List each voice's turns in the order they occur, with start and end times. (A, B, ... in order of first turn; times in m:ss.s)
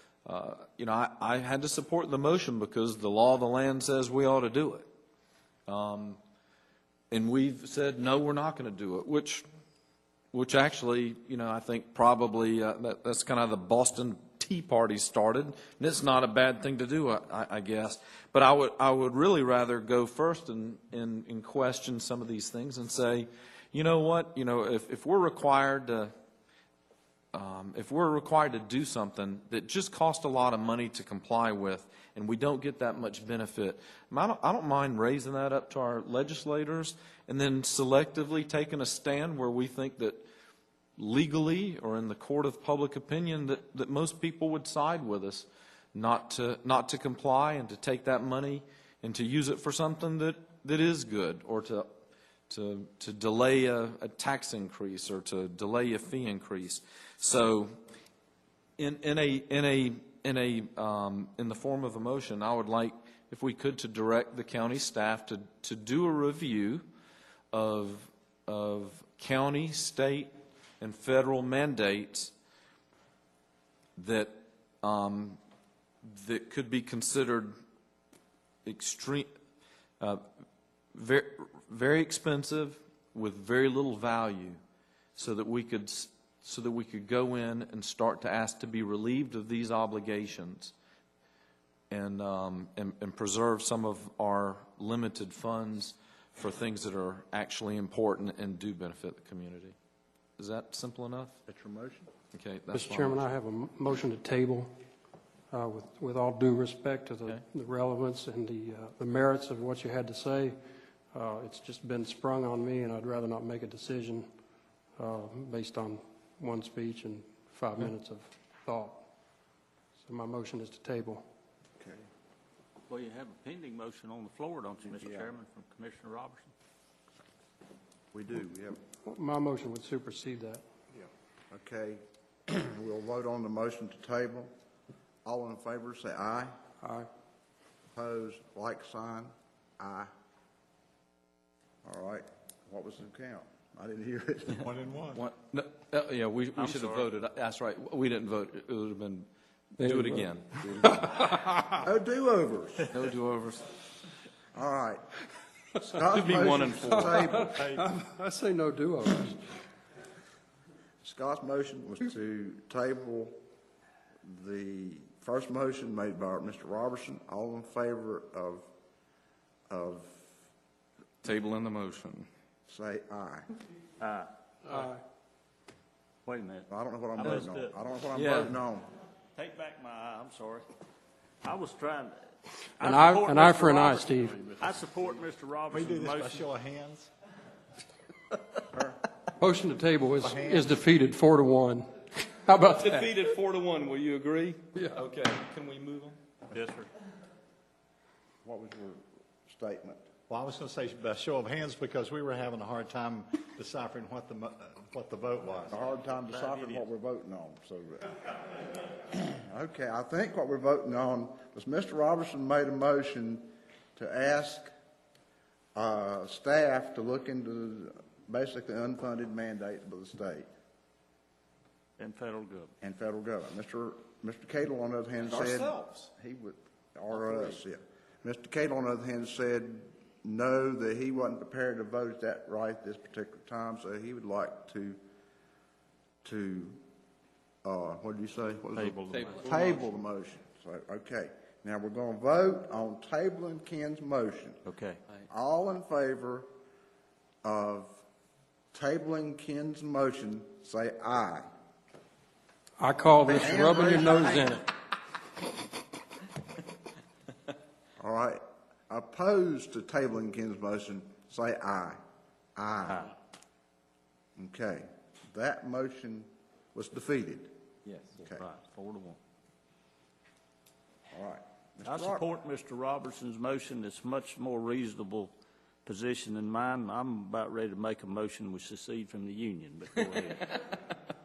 0:00.3-0:04.9 A
0:05.7-0:06.2 A
0:07.1-0:09.4 A
0:10.3-0:26.1 A
0:27.3-0:40.2 A
0:41.0-0:51.9 A
0:52.5-0:57.7 A
0:58.8-1:06.8 A
1:07.5-1:12.3 A
1:14.0-1:15.4 A
1:16.0-1:17.6 A
1:18.6-1:19.3 A
1:20.9-1:24.6 A
1:25.2-1:30.7 A
1:31.9-1:39.8 A
1:40.4-1:41.3 A
1:41.5-1:42.1 B
1:42.3-1:43.3 A
1:42.7-1:44.7 C
1:45.5-1:50.6 C
1:51.1-1:54.3 C
1:55.0-1:59.0 C
2:00.0-2:01.2 C
2:02.9-2:06.5 D
2:04.8-2:05.3 B
2:08.1-2:08.8 B
2:09.1-2:10.6 C
2:11.5-2:14.5 B
2:15.2-2:16.5 B
2:16.8-2:17.1 C
2:18.0-2:20.1 B
2:21.8-2:24.7 B
2:24.6-2:25.2 E
2:25.2-2:31.1 A
2:26.6-2:27.1 D
2:29.8-2:31.6 C
2:31.7-2:32.9 B
2:32.9-2:33.7 A
2:34.6-2:35.1 B
2:35.8-2:37.7 B
2:36.0-2:37.3 A
2:37.1-2:39.5 C
2:41.0-2:43.4 B
2:44.2-2:48.7 B
2:49.7-2:50.3 B
2:51.2-2:52.3 A
2:52.7-2:53.5 B
2:54.0-2:54.8 D
2:54.7-2:55.0 C
2:56.3-2:57.8 D
2:56.7-2:58.9 B
2:58.1-2:58.6 A
2:59.4-3:00.7 D
3:01.4-3:02.2 D
3:02.8-3:06.5 D
3:02.8-3:04.5 C
3:05.7-3:07.1 E
3:09.4-3:13.1 C
3:10.2-3:10.8 E
3:12.6-3:16.2 A
3:16.5-3:16.9 D
3:18.4-3:20.0 B
3:20.3-3:25.7 E
3:25.7-3:28.3 B
3:26.3-3:26.9 D
3:29.0-3:34.7 B
3:35.8-3:40.5 B
3:42.0-3:42.7 D
3:42.8-3:55.0 B
3:45.2-3:46.1 A
3:56.2-3:56.8 B
3:57.6-4:04.6 B
3:58.7-3:59.6 D
3:59.1-3:59.8 A
4:04.6-4:05.0 D
4:05.3-4:06.5 B
4:07.4-4:08.0 B
4:08.7-4:11.5 B
4:12.8-4:14.7 C
4:13.3-4:14.6 B
4:18.0-4:22.0 B
4:22.6-4:23.1 B
4:22.9-4:23.1 D
4:24.4-4:27.5 B
4:27.9-4:28.2 A
4:28.4-4:29.2 D
4:31.1-4:32.2 B
4:31.8-4:35.3 D
4:35.9-4:40.5 D